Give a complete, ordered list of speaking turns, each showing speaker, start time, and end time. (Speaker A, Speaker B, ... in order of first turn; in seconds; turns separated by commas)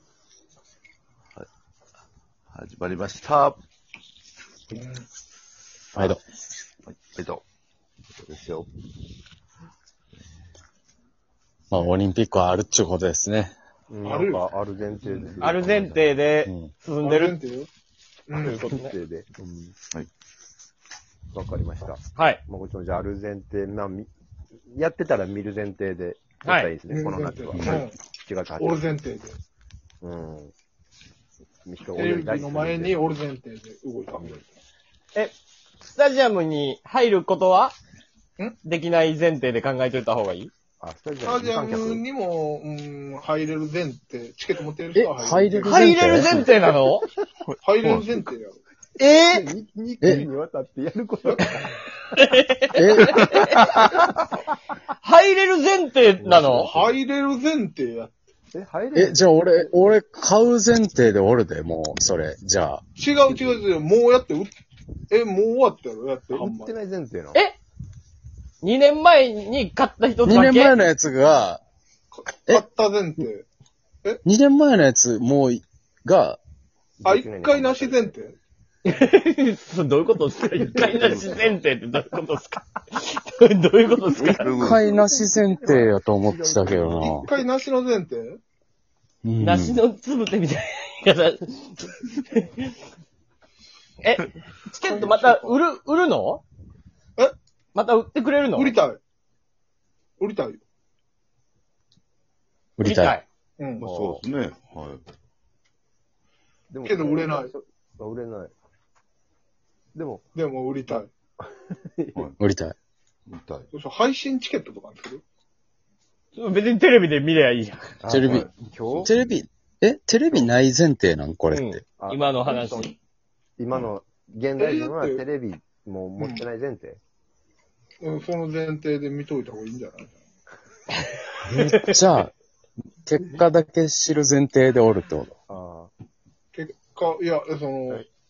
Speaker A: 2.5-3.6, Speaker B: 4.7-5.0, Speaker C: 6.0-6.2, Speaker A: 6.8-7.4, Speaker A: 8.2-8.7, Speaker C: 11.7-13.5, Speaker D: 13.9-16.2, Speaker B: 14.1-14.5, Speaker B: 15.1-15.4, Speaker E: 15.4-17.4, Speaker C: 16.5-16.7, Speaker B: 17.0-17.7, Speaker B: 18.3-18.7, Speaker E: 18.4-18.9, Speaker D: 18.4-19.8, Speaker D: 21.3-24.1, Speaker E: 22.2-22.4, Speaker D: 24.6-28.9, Speaker E: 26.4-26.7, Speaker B: 26.9-28.0, Speaker C: 27.6-27.8, Speaker B: 28.6-29.4, Speaker D: 30.0-30.5, Speaker D: 31.7-33.1, Speaker B: 31.9-34.5, Speaker D: 34.1-34.4, Speaker E: 35.1-37.8, Speaker E: 38.6-40.5, Speaker D: 40.8-42.0, Speaker B: 41.2-46.2, Speaker C: 45.0-46.4, Speaker E: 45.6-47.1, Speaker A: 47.5-48.2, Speaker B: 47.6-48.6, Speaker E: 49.0-49.5, Speaker D: 49.2-51.8, Speaker C: 50.0-50.3, Speaker B: 51.3-51.6, Speaker E: 52.2-53.5, Speaker C: 52.7-54.0, Speaker D: 53.8-54.5, Speaker E: 55.0-56.7, Speaker D: 56.2-57.0, Speaker B: 56.5-58.2, Speaker D: 58.5-59.9, Speaker C: 59.0-62.8, Speaker B: 63.0-64.5, Speaker B: 65.1-66.7, Speaker D: 66.3-67.5, Speaker E: 68.6-70.8, Speaker C: 70.3-71.6, Speaker B: 72.4-73.5, Speaker C: 74.2-76.4, Speaker D: 77.0-78.2, Speaker B: 77.0-78.4, Speaker E: 78.8-84.5, Speaker A: 80.7-81.6, Speaker A: 84.1-84.8, Speaker C: 84.6-87.3, Speaker D: 84.6-87.2, Speaker B: 87.0-88.4, Speaker C: 89.2-89.8, Speaker E: 89.4-92.7, Speaker E: 94.0-96.4, Speaker B: 94.8-95.6, Speaker E: 97.7-98.8, Speaker B: 98.5-99.0, Speaker B: 100.2-100.6, Speaker C: 102.8-103.2, Speaker E: 102.8-103.2, Speaker B: 103.6-103.8, Speaker A: 103.8-105.0, Speaker D: 103.8-104.3, Speaker D: 106.7-108.5, Speaker B: 106.8-107.5, Speaker D: 110.0-110.2, Speaker B: 110.3-111.1, Speaker D: 111.4-112.3, Speaker C: 112.4-112.8, Speaker A: 113.3-113.7, Speaker B: 113.7-115.2, Speaker E: 116.3-118.0, Speaker D: 118.0-119.2, Speaker C: 118.1-118.5, Speaker A: 118.4-119.1, Speaker C: 119.0-121.8, Speaker E: 121.5-122.9, Speaker D: 122.0-122.9, Speaker D: 123.6-127.0, Speaker B: 124.6-125.2, Speaker B: 126.2-126.4, Speaker B: 128.0-130.2, Speaker C: 131.4-132.3, Speaker C: 133.1-135.3, Speaker D: 135.5-135.9, Speaker B: 136.5-138.1